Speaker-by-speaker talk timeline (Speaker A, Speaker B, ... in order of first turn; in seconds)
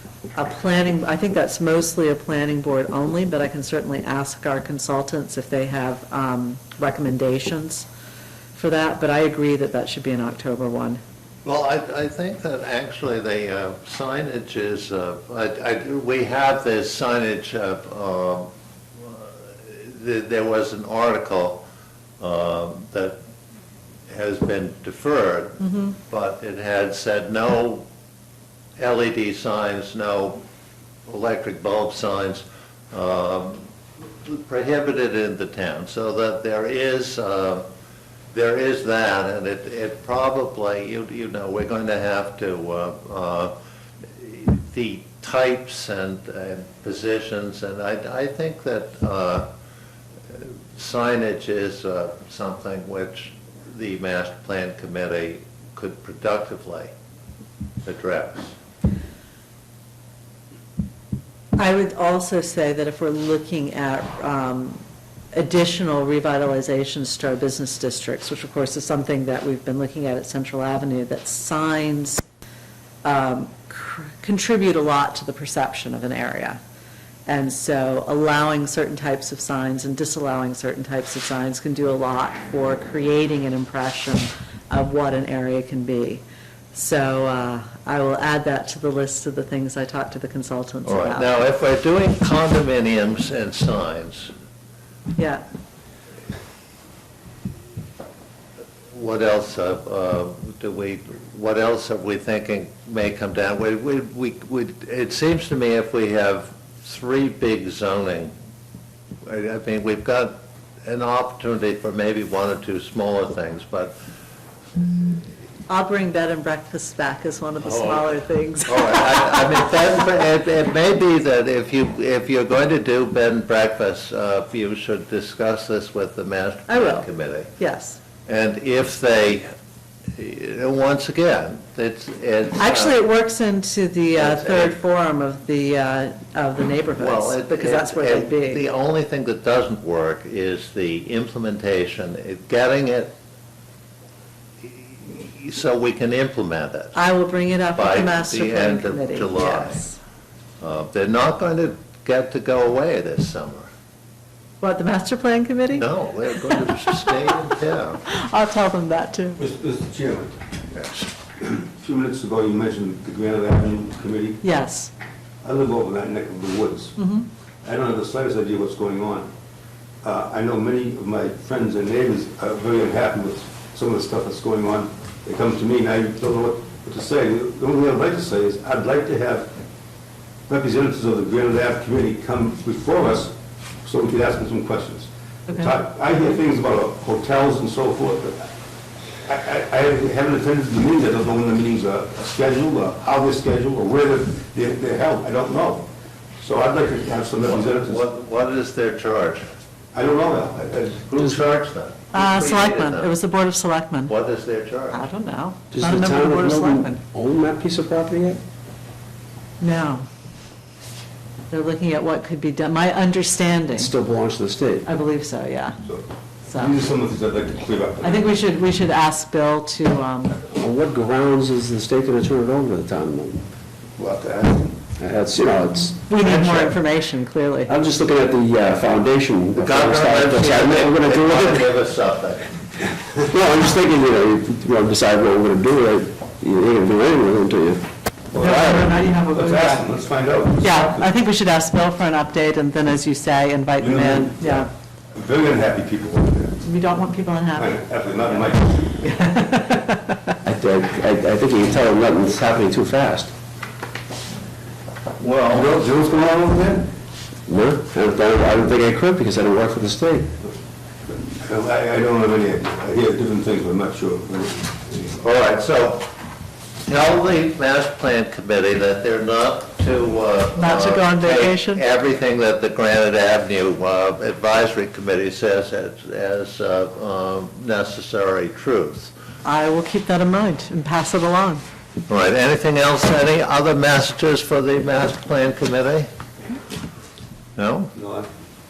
Speaker A: 0.4-7.9, 8.5-11.0, 61.6-72.2, 73.0-76.6, 77.2-91.3, 95.2-95.4, 115.7-119.5, 126.7-127.1, 127.6-128.0, 132.6-138.6, 146.9-150.0, 154.6-157.1, 158.1-159.4, 164.4-164.9, 167.0-167.3, 202.1-204.1, 204.9-207.0, 209.6-210.1, 211.5-213.9, 214.8-215.8, 216.5-216.8, 218.0-220.4, 225.9-227.7, 238.3-239.9, 240.6-244.7, 246.6-250.2, 270.6-271.8, 279.4-281.6
Speaker B: 11.4-21.6, 22.2-23.2, 24.1-27.9, 28.8-30.4, 31.1-33.6, 34.2-37.6, 38.3-43.5, 44.1-49.5, 50.3-56.9, 57.8-58.5, 90.8-94.3, 98.9-108.3, 109.2-113.9, 117.6-118.1, 118.7-127.5, 128.2-129.5, 130.1-133.0, 134.2-134.7, 137.0-143.1, 144.6-146.9, 147.7-149.8, 150.6-153.7, 155.7-158.0, 160.7-161.1, 197.4-199.4, 201.1-203.1, 204.1-205.0, 229.6-232.6, 255.2-255.7, 265.2-266.1, 266.9-279.1, 282.1-286.1, 287.6-287.9
Speaker C: 159.4-160.4, 161.4-164.4, 165.4-167.0, 167.6-169.3, 170.0-179.5, 180.5-183.3, 183.8-188.5, 189.3-195.9, 196.4-198.0, 199.9-201.2, 215.8-218.3, 224.0-224.9, 238.3-241.1, 243.8-246.6, 247.6-249.0, 255.5-256.9, 261.2-265.2, 287.9-288.3
Speaker D: 205.7-208.4, 213.8-214.9, 220.5-223.4, 225.0-226.7, 227.7-231.7, 233.3-237.8, 250.4-253.3, 257.5-260.3